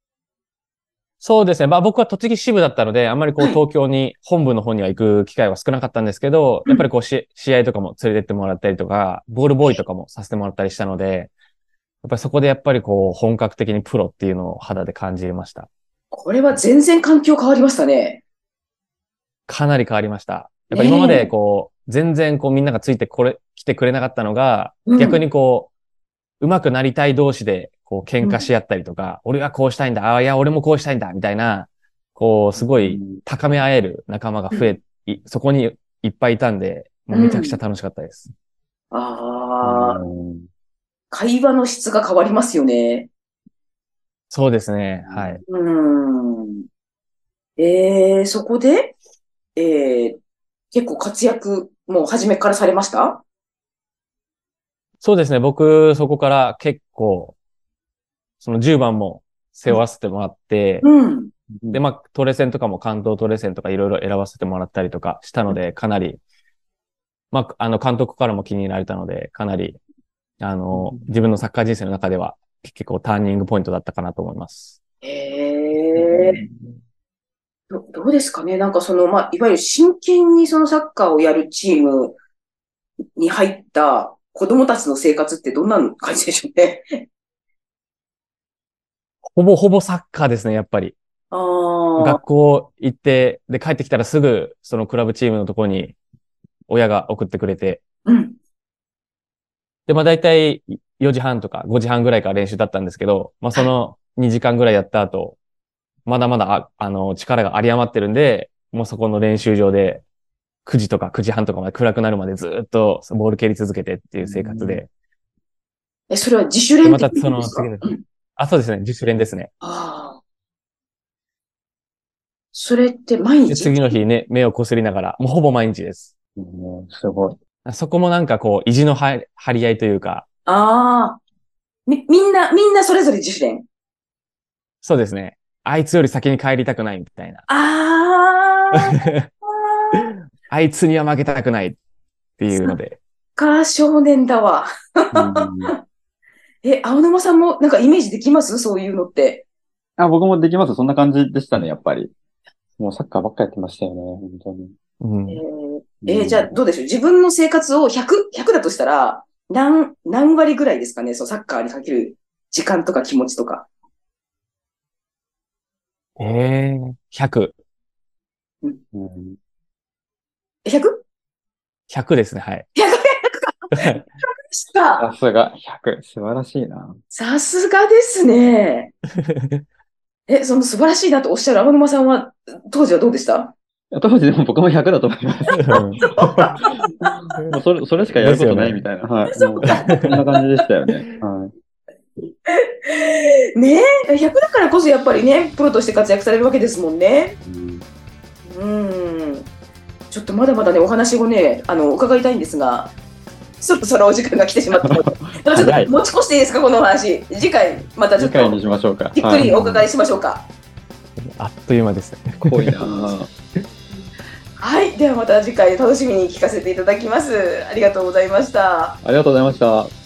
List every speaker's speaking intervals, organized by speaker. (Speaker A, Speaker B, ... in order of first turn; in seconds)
Speaker A: 1.2-11.3, 12.0-15.7, 19.5-25.7, 26.4-38.3, 44.3-45.4, 55.0-57.4, 58.4-60.9, 61.7-66.2, 67.3-69.8, 70.4-74.7, 89.3-91.0, 92.0-96.0, 96.7-97.8, 99.9-105.4, 106.1-110.0, 110.7-114.9, 116.8-119.5, 123.5-126.1, 127.7-130.3, 134.8-137.4, 140.0-141.8, 142.4-143.0, 155.0-155.4, 166.2-167.5, 171.9-172.7, 185.7-186.6, 188.2-188.8, 209.4-209.9, 211.2-213.1
Speaker B: 16.1-18.2, 20.7-21.3, 24.9-25.2, 28.2-28.5, 34.5-34.8, 37.1-37.6, 38.9-40.0, 41.1-43.1, 45.5-46.6, 47.6-49.0, 49.6-50.2, 50.7-53.2, 60.8-61.3, 75.0-76.4, 77.7-82.2, 83.2-87.0, 91.3-92.2, 98.1-98.4, 116.1-118.0, 119.6-120.2, 122.5-124.0, 130.5-131.2, 131.9-133.7, 137.5-140.1, 142.5-142.8, 143.4-145.5, 146.6-149.5, 155.3-163.7, 170.7-171.0, 172.8-175.1, 177.1-178.9, 180.3-183.5, 186.0-186.8, 189.3-190.4, 192.5-197.4, 198.5-199.5, 200.1-202.9, 203.6-208.6, 209.1-210.5, 214.6-219.0
Speaker C: 32.6-33.2, 39.6-40.5, 45.0-45.4, 61.5-61.8, 70.7-71.0, 114.2-114.8, 126.4-127.4, 145.1-145.7, 150.0-152.1, 152.8-154.7, 156.0-156.6, 168.9-169.4, 175.0-177.0, 183.9-186.5, 187.5-191.5, 197.4-197.8, 204.8-205.9, 208.2-209.5, 212.4-213.3, 219.0-219.9